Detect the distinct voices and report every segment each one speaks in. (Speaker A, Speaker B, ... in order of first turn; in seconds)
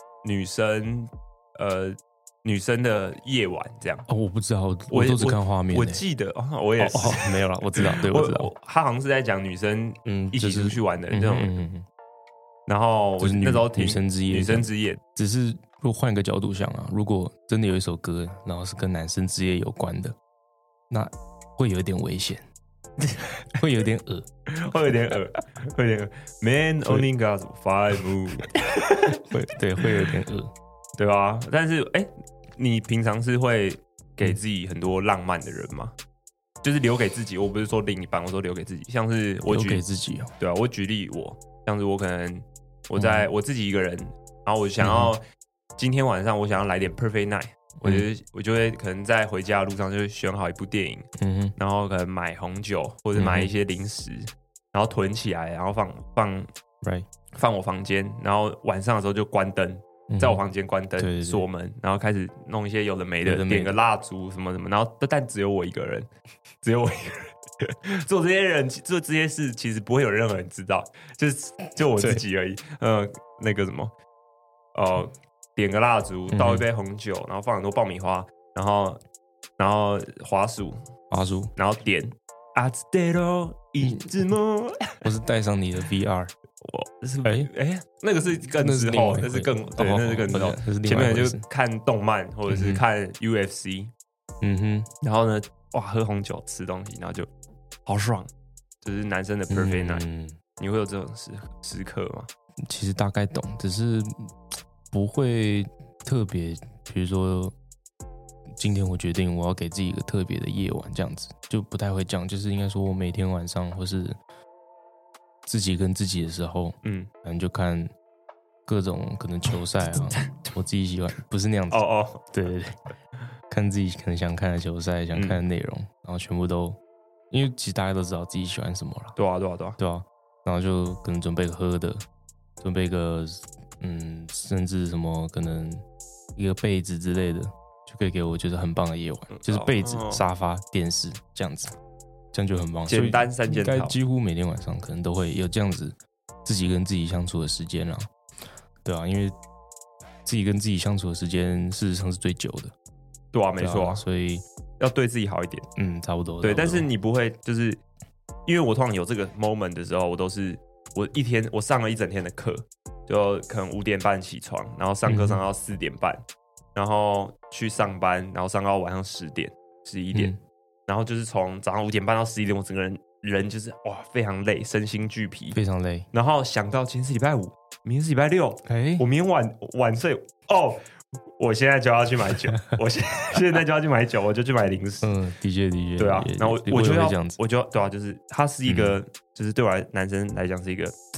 Speaker A: 0.2-4.1, 4.9-11.5, 12.7-15.0, 24.5-29.2, 31.0-36.0, 36.6-39.8, 40.4-45.2, 45.8-56.5, 57.3-66.1, 66.6-73.9, 74.8-79.0, 79.6-80.8, 81.6-85.1, 86.6-93.9, 95.0-97.3, 97.9-98.3, 98.8-100.0, 100.6-102.3, 116.8-117.1, 121.7-122.3, 125.1-125.4, 129.2-129.8, 139.3-140.2, 142.9-144.0, 153.3-154.0, 154.8-155.7, 156.4-157.8, 158.5-166.2, 166.8-170.3, 170.9-175.6, 176.1-180.8, 181.4-185.1, 186.0-190.9
Speaker B: 4.1-6.0, 6.8-8.5, 10.1-11.9, 13.2-20.2, 20.9-22.4, 23.5-24.3, 29.1-30.5, 39.5-40.3, 43.0-43.3, 44.8-45.1, 51.2-51.5, 53.1-53.5, 56.8-57.1, 60.1-60.4, 61.0-61.5, 63.2-63.8, 72.0-72.2, 76.3-76.7, 81.1-81.5, 83.8-84.1, 85.0-86.3, 87.2-87.5, 88.6-91.4, 92.5-92.8, 94.4-94.9, 99.5-100.4, 102.7-104.3, 104.9-107.5, 108.6-114.2, 115.5-117.9, 118.7-122.7, 123.5-126.8, 127.3-129.2, 129.8-132.0, 132.6-135.8, 136.3-141.7, 142.3-148.1, 148.8-149.3, 150.3-152.7, 153.6-154.4, 155.8-156.9, 165.1-165.4, 170.1-170.4, 175.5-176.1, 178.7-179.1, 185.0-187.4, 188.7-189.0